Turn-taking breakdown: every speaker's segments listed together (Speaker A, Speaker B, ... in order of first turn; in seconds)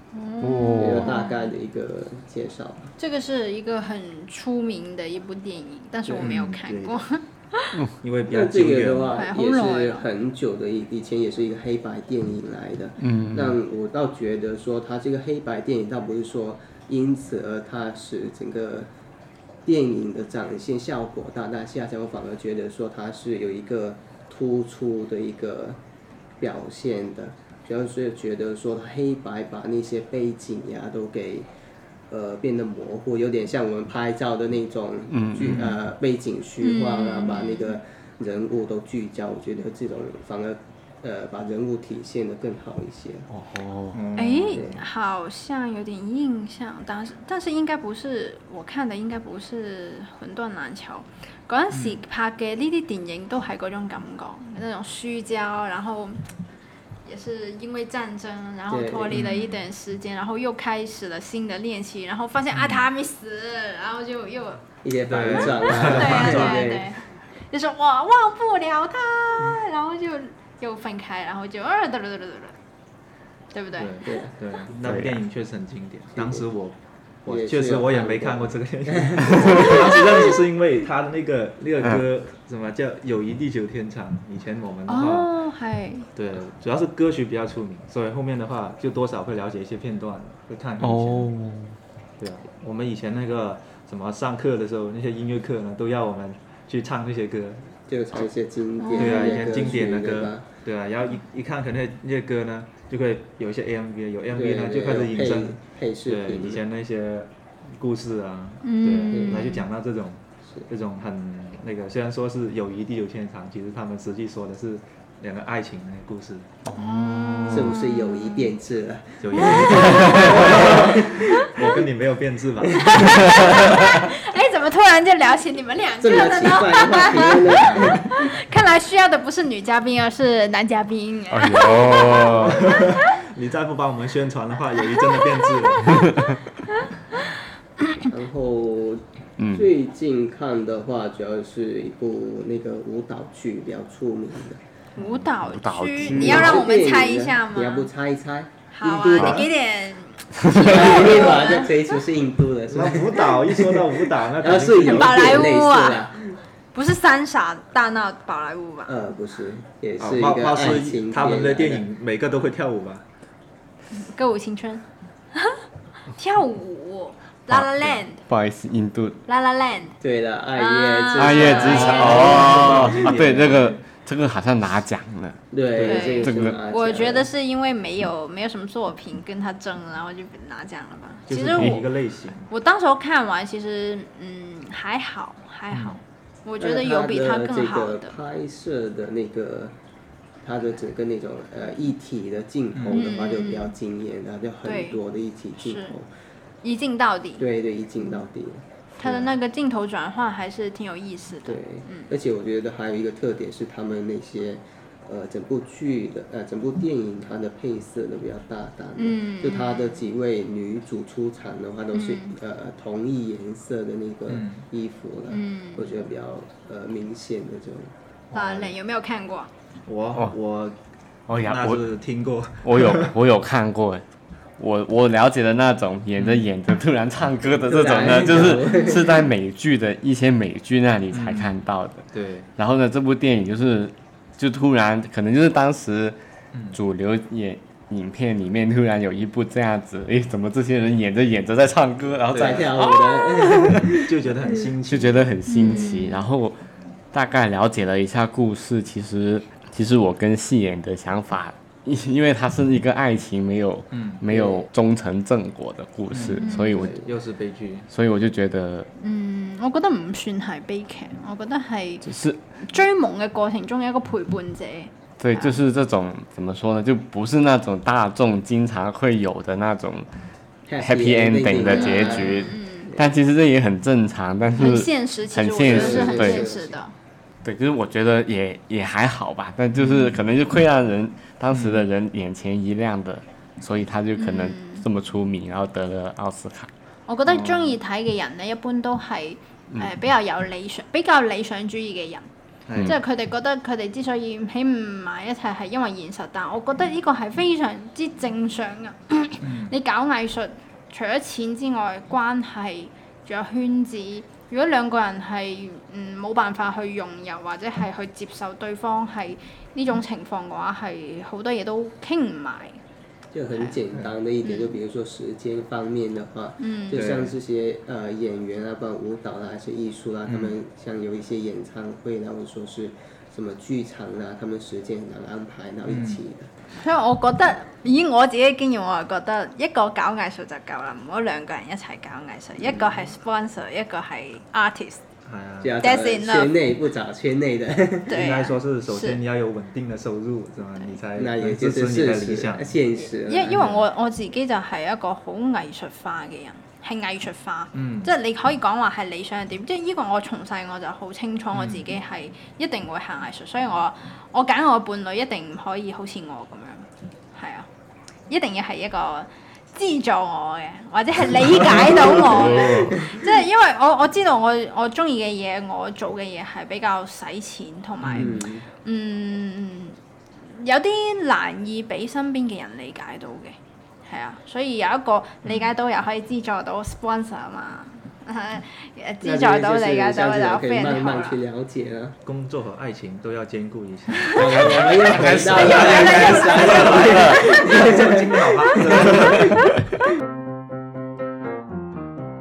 Speaker A: 0.1-1.3, 3.0-7.8, 9.2-10.0, 36.6-37.8, 44.1-56.2, 57.0-64.6, 65.7-72.5, 73.5-74.2, 79.6-80.3, 84.9-86.1, 98.8-99.3, 108.6-109.6, 116.7-118.5, 119.4-120.6, 121.1-121.5, 122.7-133.1, 135.4-135.9, 145.0-147.9, 148.7-151.8, 154.8-156.1, 156.7-158.9, 163.9-165.6, 166.1-168.2, 169.3-169.9, 170.6-172.5, 175.8-181.8, 182.5-188.1, 192.9-193.7, 194.6-195.0, 195.6-195.9, 196.6-197.4, 199.0-202.1, 209.0-210.0, 211.9-212.3, 215.3-215.8, 218.3-219.5, 245.5-246.2, 256.4-256.7, 259.0-265.5, 271.6-272.9, 274.6-276.9, 284.2-284.8, 287.1-292.3, 292.8-312.8, 314.4-314.7, 316.6-317.0, 326.7-335.0, 335.8-336.6, 338.1-339.2, 343.2-357.7, 358.3-381.4, 385.6-387.6
Speaker B: 0.4-1.2, 13.0-13.6, 35.1-35.6, 43.3-44.0, 74.8-75.2, 79.3-79.7, 90.8-91.8, 116.7-117.7, 120.0-120.3, 131.3-132.7, 136.0-136.3, 139.4-139.7, 145.0-146.6, 150.4-150.7, 167.5-169.2, 171.1-175.4, 176.2-176.6, 181.5-181.8, 221.3-221.8, 222.6-224.0, 224.6-232.1, 232.6-236.2, 236.7-244.0, 244.9-246.6, 247.1-257.0, 257.9-258.9, 262.0-262.4, 265.2-270.1, 270.8-276.5, 277.4-286.7, 361.8-362.9, 384.7-387.4
Speaker C: 0.8-2.9, 6.1-6.3, 8.3-18.9, 19.6-25.8, 26.4-31.5, 32.1-43.3, 44.5-44.8, 58.7-59.2, 64.8-66.9, 76.2-76.4, 77.3-79.7, 97.9-100.4, 104.3-106.6, 109.1-109.5, 117.5-121.3, 126.0-128.1, 138.0-144.6, 146.1-149.4, 150.5-156.4, 158.8-161.8, 170.0-173.4, 175.5-177.3, 186.6-189.7, 190.4-196.1, 197.4-199.3, 201.4-217.9, 227.7-229.3, 242.3-244.6, 254.3-254.7, 270.7-273.0, 275.6-276.7, 313.3-326.5, 335.6-338.2, 341.1-343.7, 368.2-368.6, 379.2-382.1, 384.3-389.5
Speaker D: 6.2-7.0, 8.0-9.2, 35.4-35.8, 43.9-44.6, 51.7-52.0, 59.1-59.6, 62.5-62.8, 65.1-66.7, 73.8-85.3, 86.1-91.3, 92.2-97.7, 98.9-116.5, 119.2-123.9, 132.0-136.2, 148.9-149.4, 152.7-155.4, 160.0-163.0, 171.7-173.7, 175.7-176.2, 181.3-182.5, 185.7-186.0, 192.7-193.0, 214.3-214.6, 218.3-218.7, 219.9-220.8, 221.4-223.1, 226.2-226.4, 231.1-231.5, 232.1-232.5, 242.3-242.7, 243.7-245.3, 253.9-254.2, 256.1-257.9, 279.8-280.1, 281.5-281.8, 287.3-287.7, 292.7-293.0, 299.4-299.7, 316.9-317.3, 320.3-320.5, 325.9-326.2, 335.2-335.8, 338.1-342.7, 343.5-343.8, 347.7-348.1, 351.5-351.9, 368.0-368.4, 382.2-389.6